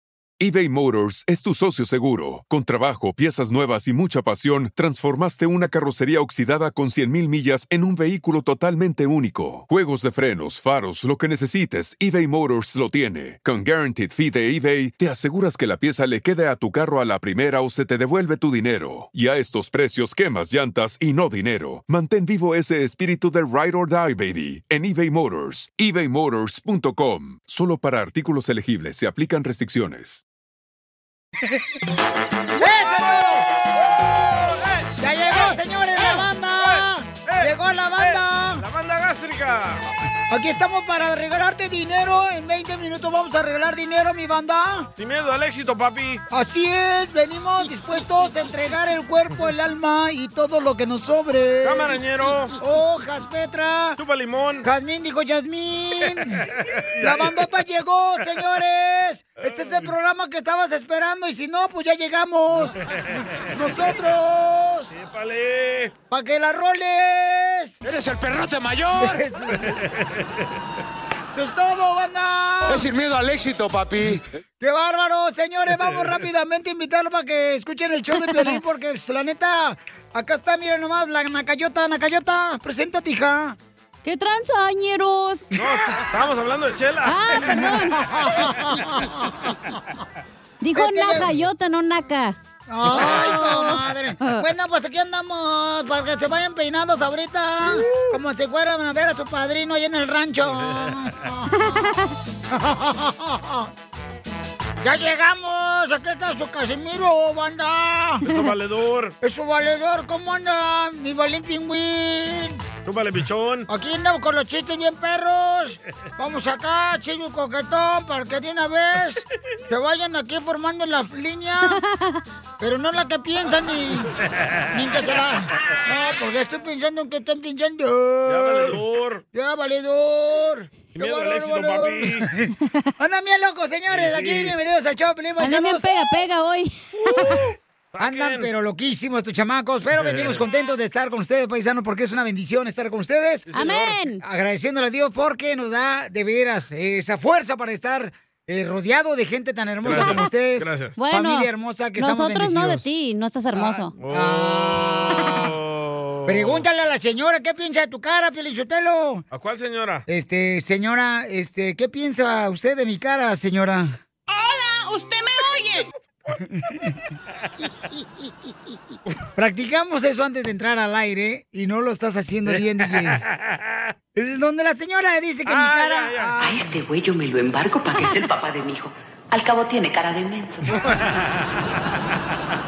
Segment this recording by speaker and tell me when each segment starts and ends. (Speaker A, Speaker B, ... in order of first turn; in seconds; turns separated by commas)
Speaker A: 0.4-30.2, Speaker B: 32.6-33.4, Speaker C: 33.9-34.9, Speaker B: 35.0-38.6, Speaker C: 36.6-39.8, Speaker B: 40.3-44.9, Speaker C: 45.0-46.2, Speaker B: 46.3-54.0, Speaker C: 51.6-52.5, Speaker C: 54.0-54.6, Speaker B: 54.6-56.5, Speaker C: 56.4-57.5, Speaker B: 57.0-62.8, Speaker C: 59.4-59.9, Speaker C: 62.8-63.9, Speaker B: 63.5-64.9, Speaker C: 64.9-65.9, Speaker B: 66.1-67.8, Speaker D: 67.8-69.2, Speaker B: 69.0-69.8, Speaker C: 69.5-70.5, Speaker B: 71.3-72.9, Speaker D: 72.7-74.2, Speaker B: 74.1-83.6, Speaker C: 75.8-76.2, Speaker E: 78.3-78.6, Speaker E: 84.0-85.5, Speaker C: 85.5-87.8, Speaker E: 87.0-88.0, Speaker B: 87.5-89.7, Speaker E: 90.6-92.3, Speaker B: 90.7-91.3, Speaker B: 92.7-101.9, Speaker E: 92.9-94.4, Speaker C: 100.4-101.1, Speaker E: 101.5-102.1, Speaker B: 102.5-103.7, Speaker B: 104.8-108.2, Speaker C: 108.2-109.1, Speaker B: 109.2-112.6, Speaker C: 112.8-113.7, Speaker B: 113.7-121.8, Speaker E: 121.7-122.0, Speaker B: 122.6-124.1, Speaker C: 124.3-124.6, Speaker B: 124.7-128.7, Speaker C: 128.3-129.2, Speaker B: 129.3-135.9, Speaker C: 130.9-132.3, Speaker C: 133.9-134.5, Speaker E: 135.4-137.4, Speaker B: 137.1-137.4, Speaker C: 137.2-138.5, Speaker B: 138.0-152.9, Speaker C: 139.9-140.4, Speaker C: 143.5-143.9, Speaker E: 143.5-144.2, Speaker C: 149.8-150.9, Speaker E: 149.9-150.3, Speaker E: 151.0-153.9, Speaker B: 153.5-155.4, Speaker C: 154.0-154.7, Speaker C: 155.3-156.7, Speaker B: 156.3-159.2, Speaker C: 159.3-160.0, Speaker B: 160.1-164.0, Speaker B: 166.4-166.8, Speaker B: 169.3-173.2, Speaker C: 172.5-173.9, Speaker B: 174.1-176.8, Speaker C: 175.4-176.3, Speaker F: 176.4-180.8